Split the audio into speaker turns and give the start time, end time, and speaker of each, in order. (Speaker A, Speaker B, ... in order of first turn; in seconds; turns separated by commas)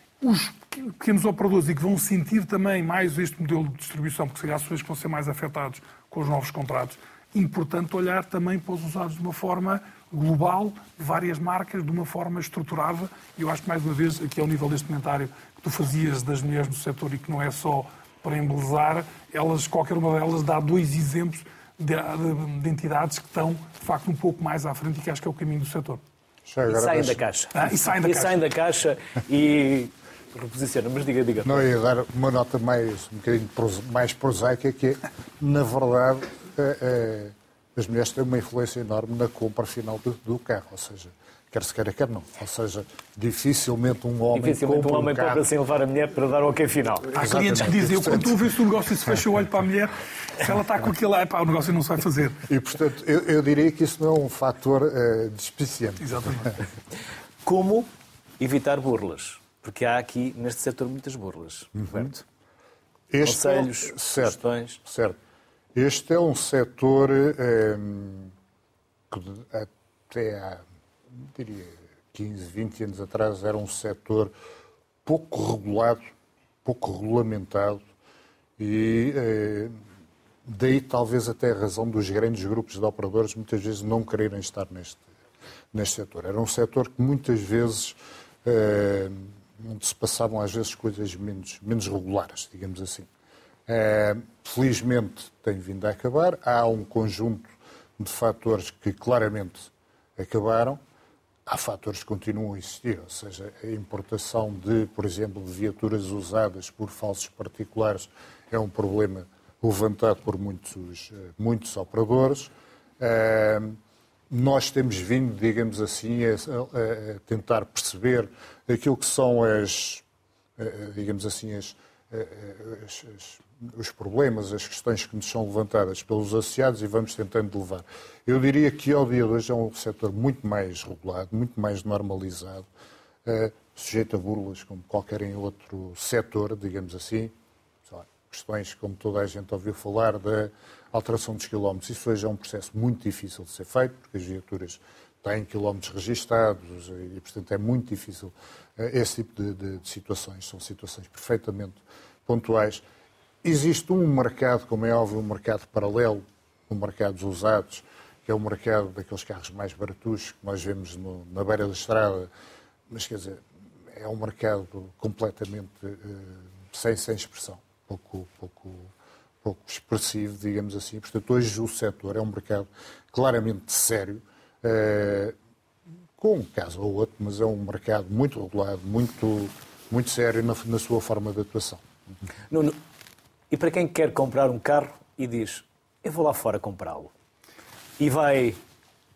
Speaker A: 0.2-26.0, Speaker B: 26.5-27.2, Speaker C: 26.7-31.7, Speaker A: 27.5-28.4, Speaker B: 31.4-45.5, Speaker C: 44.3-47.3, Speaker B: 47.1-48.4, Speaker A: 47.2-52.5, Speaker B: 52.5-56.3, Speaker A: 56.0-56.5, Speaker C: 57.4-62.2, Speaker B: 61.8-62.1, Speaker B: 63.1-65.2, Speaker C: 63.2-64.8, Speaker B: 65.8-68.3, Speaker B: 69.1-70.6, Speaker B: 71.1-74.3, Speaker B: 75.0-76.1, Speaker B: 76.7-77.8, Speaker B: 78.6-79.7, Speaker B: 80.5-85.1, Speaker B: 85.7-93.1, Speaker B: 93.7-97.5, Speaker B: 98.0-100.8, Speaker B: 101.5-113.8, Speaker B: 114.3-120.0, Speaker B: 120.6-132.7, Speaker B: 133.2-137.3, Speaker B: 137.9-152.8, Speaker B: 153.4-162.3, Speaker B: 162.9-168.9, Speaker B: 169.4-175.4, Speaker B: 176.2-181.8, Speaker C: 182.5-182.8, Speaker C: 183.5-187.1, Speaker C: 188.0-188.6